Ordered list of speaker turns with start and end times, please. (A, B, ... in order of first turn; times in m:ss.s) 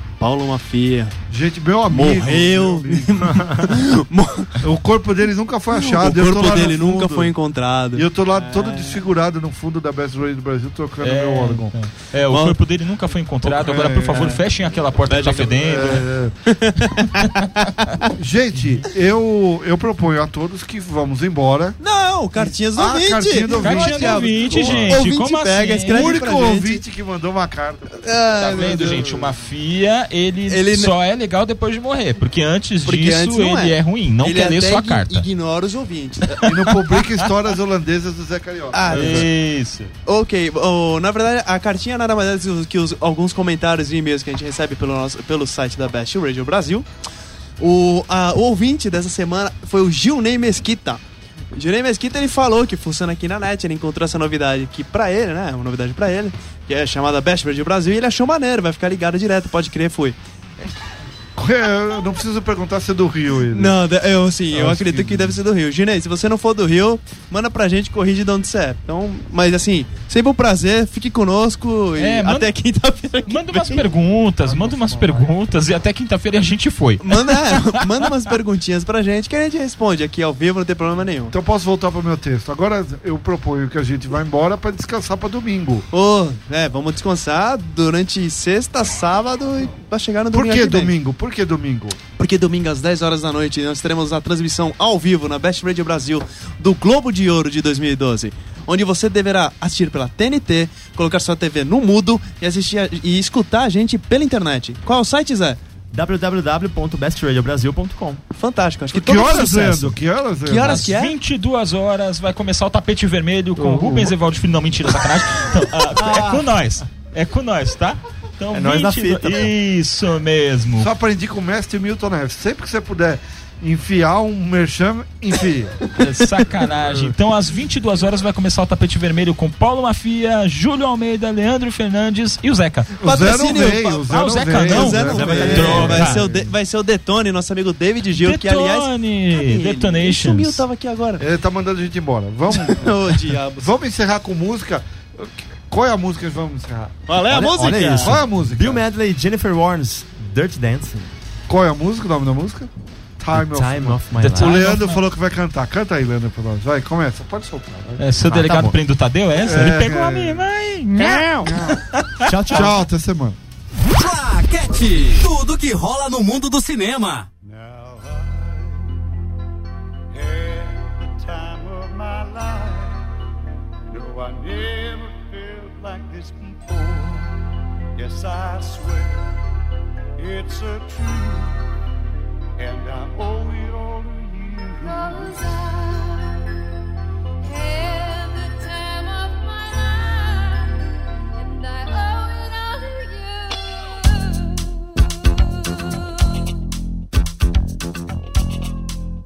0:00.2-0:01.2 A
0:01.3-0:03.3 B
0:01.9-0:04.6 A
0:03.2-0:03.7 C
0:04.6-0:07.3 B
0:05.7-0:09.0 A
0:07.9-0:11.7 B
0:11.0-0:16.1 D
0:12.3-0:12.6 A
0:13.5-0:14.4 B
0:13.6-0:14.4 A
0:15.1-0:18.1 A
0:15.6-0:16.4 B
0:18.2-0:21.8 B
0:18.6-0:18.8 D
0:21.8-0:26.8 A
0:22.4-0:25.1 B
0:23.5-0:26.2 D
0:25.9-0:29.2 B
0:28.0-0:29.1 A
0:28.4-0:35.3 D
0:30.5-0:30.9 A
0:32.8-0:36.6 A
0:36.3-0:37.2 D
0:36.4-0:39.3 B
0:38.7-0:39.3 A
0:38.9-0:39.9 D
0:40.1-0:46.9 A
0:47.6-0:51.0 A
0:51.5-1:00.2 A
1:01.4-1:03.8 B
1:03.5-1:13.9 A
1:04.5-1:05.4 B
1:12.0-1:12.5 D
1:13.3-1:17.8 D
1:14.2-1:15.3 B
1:17.0-1:21.4 A
1:21.3-1:25.9 B
1:25.9-1:31.0 A
1:30.3-1:32.0 B
1:32.2-1:45.6 A
1:45.9-1:48.2 C
1:48.3-1:51.1 A
1:48.9-1:50.9 B
1:50.6-2:00.9 D
1:53.6-1:54.2 B
1:55.9-1:56.5 C
1:58.5-1:59.5 C
2:00.7-2:05.8 B
2:06.0-2:12.9 D
2:13.0-2:21.2 A
2:13.0-2:16.4 B
2:14.1-2:16.2 D
2:15.1-2:16.3 C
2:18.2-2:20.6 D
2:21.2-2:27.0 B
2:22.5-2:23.7 A
2:27.1-2:28.2 A
2:27.3-2:31.1 C
2:28.0-2:28.8 B
2:31.5-2:38.2 B
2:33.3-2:34.5 C
2:34.2-2:35.0 D
2:38.0-2:42.7 D
2:38.2-2:38.8 C
2:39.4-2:40.5 B
2:41.0-2:41.8 B
2:42.2-2:42.8 C
2:42.5-2:43.4 B
2:43.8-2:47.3 E
2:47.4-2:48.9 F
2:50.1-2:53.0 F
2:53.9-2:57.4 F
2:58.0-2:59.3 F
3:00.2-3:01.7 F
3:02.6-3:06.3 F
3:07.4-3:10.8 F
3:11.3-3:15.3 F